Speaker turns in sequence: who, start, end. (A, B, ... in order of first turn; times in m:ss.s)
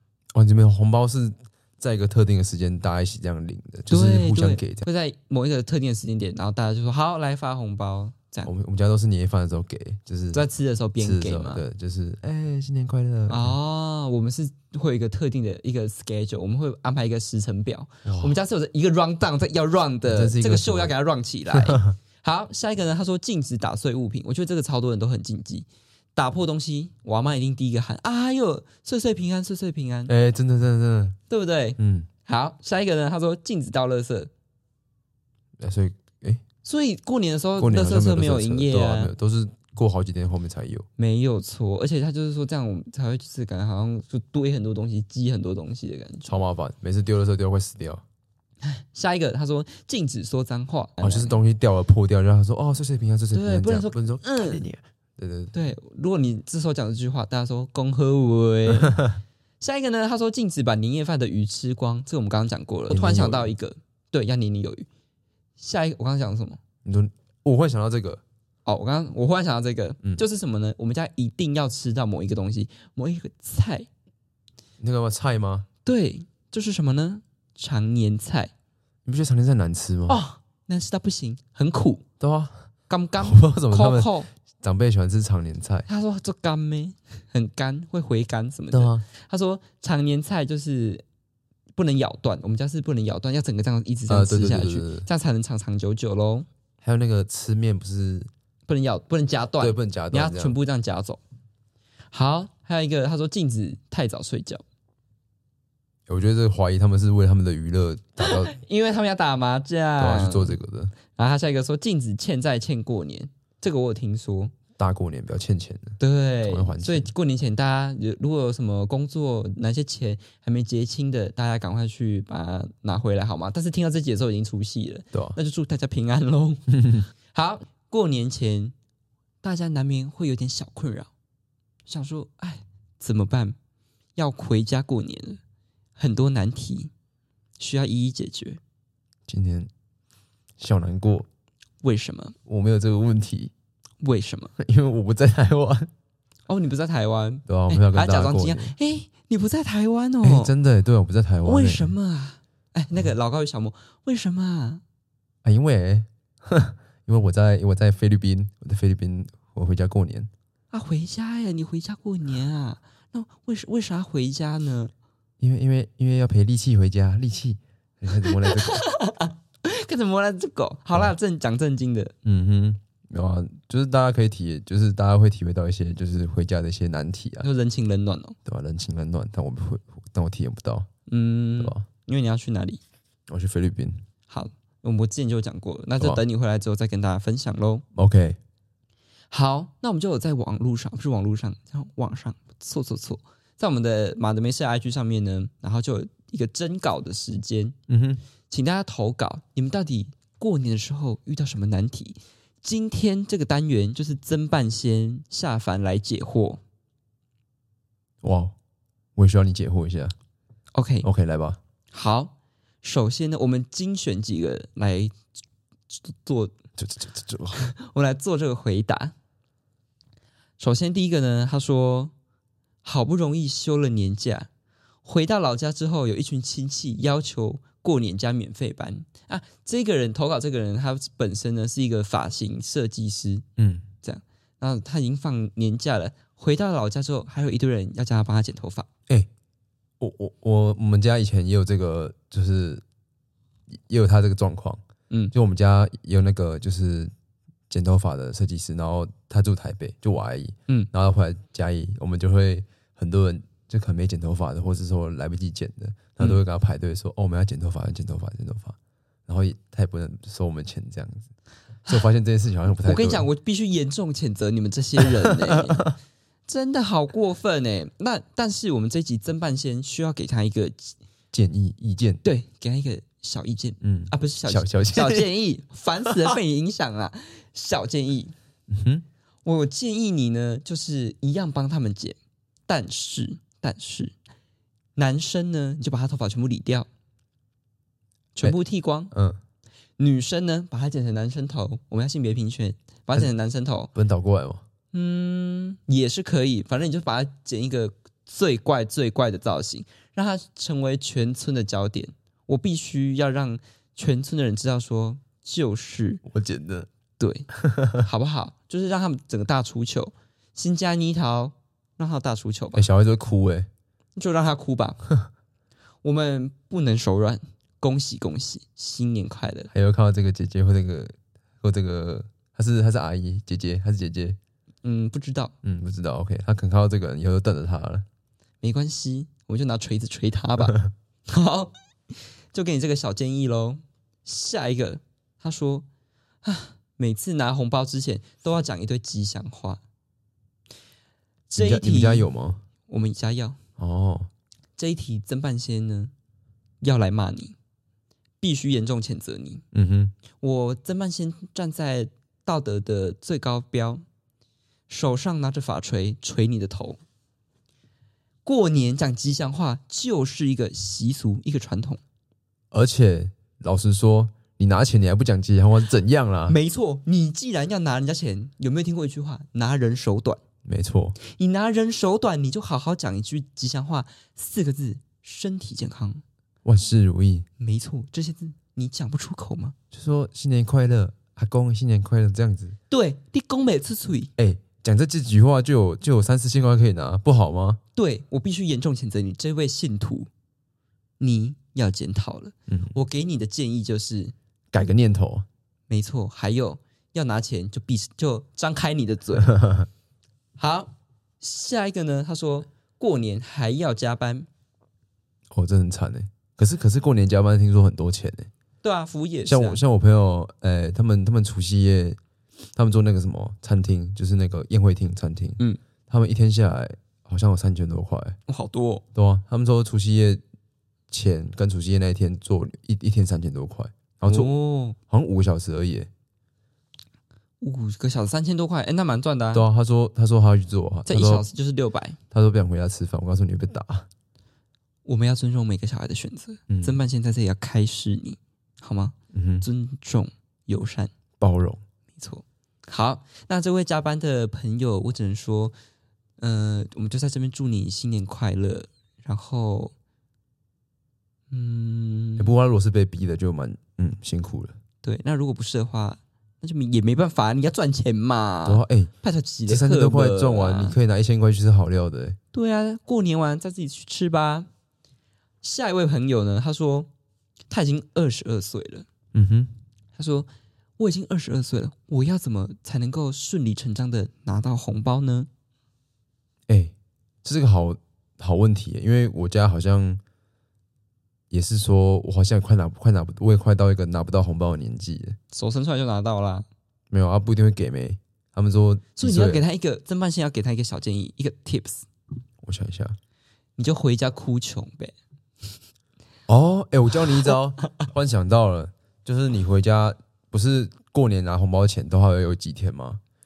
0:00.3-0:04.8 A
0:03.9-0:08.5 B
0:08.4-0:10.5 A
0:10.3-0:11.6 B
0:11.0-0:13.6 A
0:13.3-0:30.1 B
0:18.0-0:18.4 A
0:20.1-0:20.9 A
0:21.5-0:21.9 A
0:30.1-0:31.2 A
0:31.3-0:34.3 B
0:31.8-0:32.1 A
0:35.6-0:36.4 A
0:36.6-0:39.1 B
0:37.6-0:40.9 A
0:41.0-0:46.3 B
0:46.2-0:48.0 A
0:48.6-0:51.4 B
0:51.0-0:55.5 A
0:53.3-0:54.6 B
0:55.5-0:59.1 B
0:59.6-1:04.9 B
1:02.9-1:03.5 A
1:05.6-1:06.6 B
1:06.8-1:08.2 A
1:08.7-1:13.9 B
1:14.8-1:15.7 A
1:15.8-1:18.5 B
1:19.0-1:20.2 A
1:20.1-1:22.0 B
1:22.2-1:22.6 A
1:22.9-1:24.3 B
1:23.2-1:25.9 A
1:25.9-1:31.0 B
1:28.7-1:29.0 A
1:31.8-1:36.5 B
1:34.1-1:35.1 A
1:36.8-1:38.3 A
1:38.7-1:41.2 B
1:39.6-1:40.6 A
1:42.1-1:44.6 B
1:46.1-1:48.5 A
1:48.2-1:50.6 B
1:50.0-1:50.9 A
1:51.1-1:54.5 B
1:54.8-1:57.1 A
1:56.0-2:06.7 B
2:06.7-2:07.1 A
2:07.3-2:08.7 B
2:09.4-2:11.1 B
2:11.9-2:13.6 B
2:14.2-2:15.4 B
2:16.0-2:16.9 B
2:17.6-2:18.6 B
2:19.3-2:19.7 A
2:20.6-2:21.3 A
2:21.8-2:22.4 B
2:22.5-2:23.5 A
2:24.0-2:24.5 B
2:24.6-2:25.9 A
2:26.5-2:30.5 B
2:27.5-2:28.8 A
2:30.2-2:31.9 A
2:31.4-2:34.8 B
2:35.4-2:40.3 A
2:40.7-2:44.9 B
2:45.4-2:48.8 A
2:48.2-2:52.1 B
2:52.2-2:57.5 A
2:57.4-2:58.4 B
2:58.5-3:00.9 A
3:01.1-3:02.8 B
3:01.6-3:01.8 A
3:03.3-3:04.0 A
3:04.3-3:07.8 B
3:08.0-3:08.4 A
3:09.3-3:17.8 B
3:17.9-3:18.2 A
3:18.5-3:26.6 B
3:28.2-3:28.5 A
3:29.2-3:30.1 A
3:30.8-3:31.1 B
3:31.0-3:31.6 A
3:31.9-3:35.1 B
3:35.9-3:36.5 B
3:36.8-3:37.7 A
3:37.5-3:39.1 B
3:40.6-3:42.1 B
3:42.8-3:44.5 B
3:45.0-3:53.5 B
3:53.6-3:53.9 A
3:54.0-3:58.9 B
4:00.0-4:02.8 A
4:03.7-4:04.8 A
4:05.3-4:07.1 A
4:07.7-4:18.8 A
4:19.3-4:21.3 A
4:21.9-4:23.3 A
4:22.8-4:25.9 B
4:25.0-4:25.9 A
4:26.5-4:31.0 B
4:31.3-4:32.2 A
4:32.2-4:38.3 B
4:33.8-4:35.3 A
4:38.7-4:39.0 A
4:39.4-4:42.2 B
4:42.7-4:44.1 B
4:45.0-4:46.9 B
4:48.4-4:49.1 B
4:49.1-4:49.4 A
4:50.0-4:53.9 B
4:54.0-4:54.6 A
4:54.9-5:06.2 B
5:06.2-5:06.9 A
5:07.2-5:12.9 B
5:07.5-5:08.1 A
5:12.8-5:13.7 A
5:14.2-5:15.0 B
5:16.0-5:19.7 B
5:19.7-5:24.4 A
5:24.8-5:25.5 B
5:25.6-5:28.1 A
5:28.6-5:35.9 B
5:36.4-5:39.8 B
5:41.5-5:42.3 B
5:41.6-5:42.6 A
5:42.9-5:43.6 B
5:43.8-5:44.3 A
5:44.8-5:46.1 B
5:46.8-5:47.6 B
5:48.4-5:49.6 B
5:49.7-5:50.1 A
5:50.4-5:54.0 B
5:54.9-5:57.0 B
5:58.4-6:02.0 B
6:02.7-6:06.6 A
6:06.5-6:10.4 B
6:10.6-6:11.2 A
6:11.2-6:16.2 B
6:16.6-6:17.5 A
6:17.6-6:19.8 B
6:19.9-6:22.8 A
6:22.9-6:24.3 B
6:24.4-6:27.8 A
6:28.0-6:30.3 B
6:31.2-6:34.3 B
6:32.7-6:33.0 A
6:34.7-6:35.4 A
6:35.9-6:39.6 B
6:39.5-6:39.9 A
6:40.6-6:44.5 B
6:45.5-6:48.5 A
6:48.8-6:49.8 B
6:49.4-6:52.2 A
6:52.8-6:58.4 A
6:58.5-6:59.0 B
6:59.1-7:00.4 A
7:01.1-7:06.1 A
7:04.3-7:05.0 B
7:07.6-7:09.6 B
7:09.5-7:11.4 A
7:11.1-7:12.2 B
7:12.3-7:14.1 A
7:15.0-7:21.1 B
7:16.7-7:17.0 A
7:19.3-7:19.6 A
7:21.4-7:21.8 A
7:22.2-7:25.8 B
7:26.4-7:29.9 B
7:31.5-7:32.5 B
7:32.4-7:34.8 A
7:35.0-7:41.0 B
7:38.6-7:39.1 A
7:39.7-7:42.4 A
7:42.5-7:44.7 B
7:45.6-7:47.1 B
7:47.7-7:49.1 B
7:49.3-7:49.7 A
7:50.2-7:55.5 B
7:56.7-7:56.9 A
7:57.4-8:00.2 A
8:01.5-8:05.4 A
8:05.5-8:06.6 B
8:07.1-8:09.6 A
8:09.2-8:12.1 B
8:12.6-8:13.2 A
8:13.8-8:15.1 B
8:16.5-8:23.2 A